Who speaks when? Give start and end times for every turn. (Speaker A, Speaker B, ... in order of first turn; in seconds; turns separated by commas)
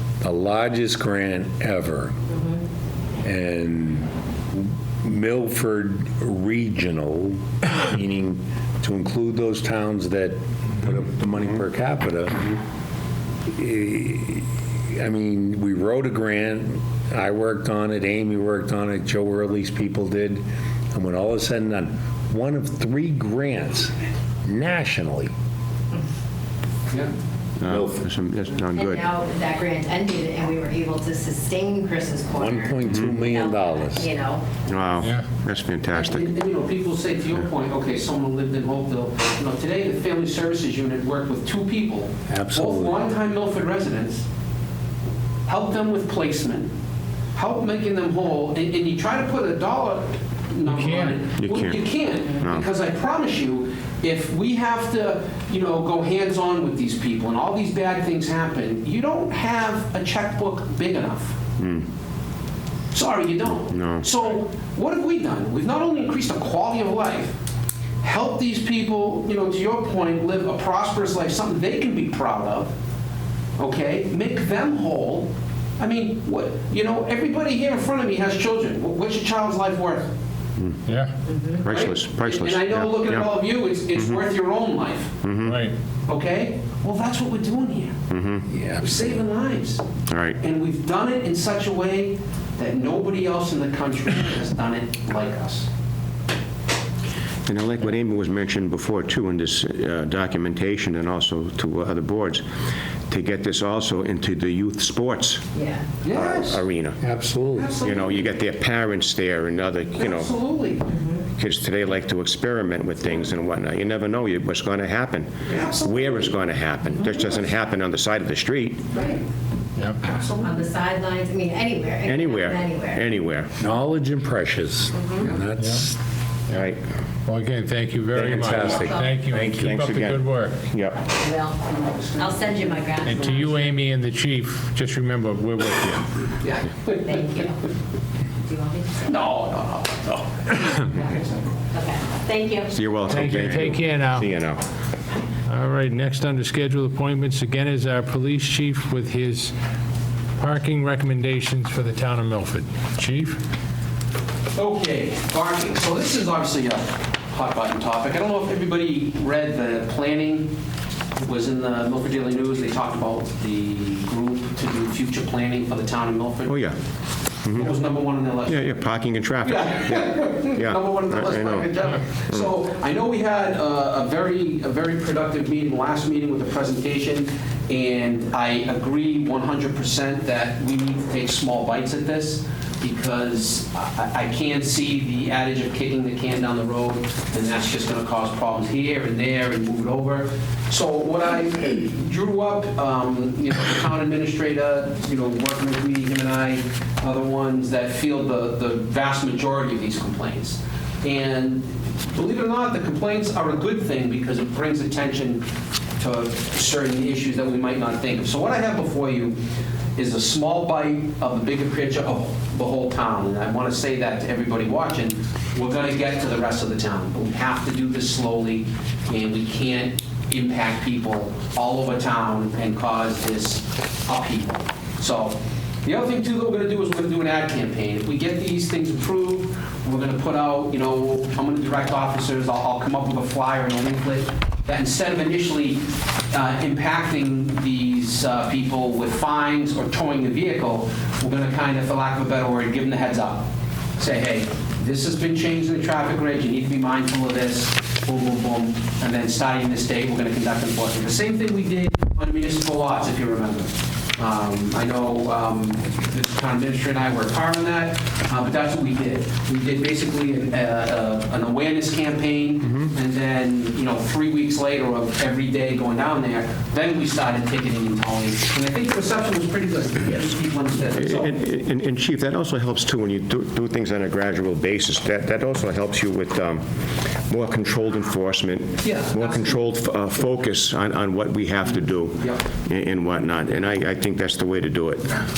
Speaker A: 0.2-2.2, Speaker B: 2.3-2.6, Speaker A: 3.2-12.6, Speaker A: 13.5-23.9, Speaker A: 24.4-25.3, Speaker C: 27.6-29.1, Speaker A: 27.7-28.0, Speaker B: 28.8-34.5, Speaker A: 32.4-34.1, Speaker C: 34.7-36.3, Speaker D: 35.0-35.3, Speaker E: 35.9-44.2, Speaker A: 42.3-43.0, Speaker E: 45.5-46.7, Speaker E: 47.4-61.4, Speaker D: 50.7-51.2, Speaker C: 51.4-52.7, Speaker C: 61.6-61.9, Speaker E: 62.9-67.3, Speaker C: 63.7-64.1, Speaker E: 68.0-72.7, Speaker E: 73.6-80.1, Speaker D: 80.9-81.1, Speaker B: 81.3-81.7, Speaker C: 81.6-83.3, Speaker E: 81.7-85.2, Speaker C: 84.0-84.2, Speaker C: 85.2-85.6, Speaker D: 85.5-85.7, Speaker E: 86.1-87.9, Speaker C: 88.1-88.5, Speaker A: 88.5-89.0, Speaker E: 88.8-89.8, Speaker C: 90.1-90.4, Speaker E: 90.4-95.7, Speaker C: 97.5-102.5, Speaker C: 103.1-105.5, Speaker B: 105.5-105.9, Speaker E: 106.0-106.6, Speaker C: 106.1-107.0, Speaker A: 107.0-107.7, Speaker E: 107.5-108.4, Speaker C: 107.8-110.3, Speaker E: 110.0-110.9, Speaker B: 110.9-111.2, Speaker C: 111.4-118.9, Speaker E: 115.4-116.4, Speaker E: 118.9-119.2, Speaker E: 120.0-120.6, Speaker B: 120.4-123.0, Speaker C: 122.0-123.5, Speaker A: 123.6-126.0, Speaker B: 124.9-125.3, Speaker C: 126.5-126.8, Speaker D: 127.3-130.6, Speaker A: 128.1-129.0, Speaker B: 128.5-129.2, Speaker C: 129.3-131.0, Speaker B: 131.1-133.6, Speaker E: 131.7-133.5, Speaker D: 133.1-136.1, Speaker E: 136.4-137.4, Speaker B: 136.9-137.6, Speaker B: 138.4-139.2, Speaker E: 139.0-141.4, Speaker B: 141.7-142.7, Speaker C: 142.7-144.6, Speaker D: 143.1-144.3, Speaker D: 145.5-149.5, Speaker D: 150.4-153.4, Speaker E: 154.6-160.5, Speaker E: 161.2-166.6, Speaker C: 166.5-166.8, Speaker C: 167.4-167.8, Speaker E: 167.6-168.6, Speaker C: 168.5-171.7, Speaker E: 169.4-205.5, Speaker E: 206.0-209.4, Speaker E: 210.0-271.4, Speaker C: 270.9-276.6, Speaker C: 277.3-285.2, Speaker E: 278.8-279.6, Speaker E: 281.6-282.4